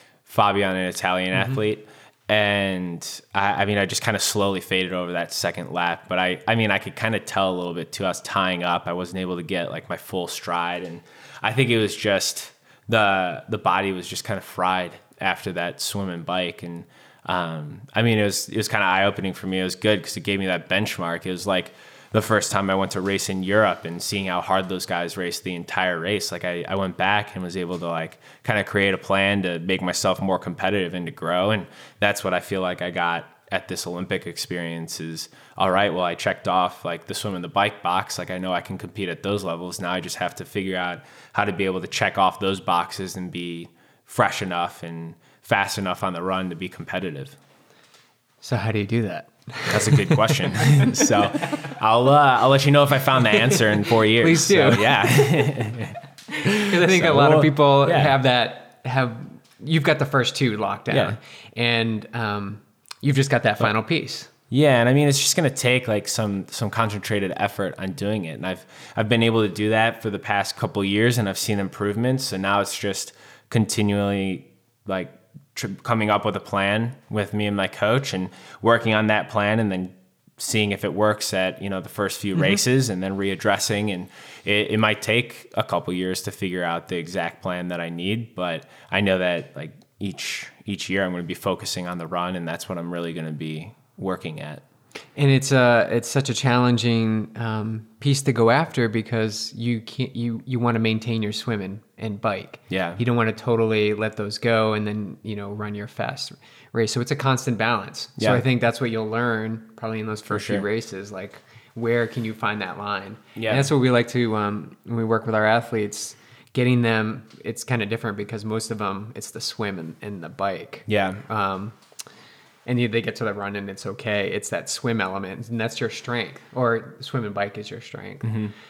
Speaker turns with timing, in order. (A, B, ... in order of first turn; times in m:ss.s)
0:00.2-0:47.4 A
0:48.4-0:51.5 B
0:49.7-0:58.2 A
0:53.4-0:55.6 B
0:56.3-1:04.3 B
1:00.9-1:01.2 A
1:04.5-1:34.6 A
1:35.2-2:01.8 B
1:42.7-1:43.0 A
1:48.2-1:48.4 A
1:50.3-1:50.6 A
1:53.4-1:53.7 A
2:00.9-2:01.2 A
2:02.6-2:08.4 B
2:08.2-2:08.5 A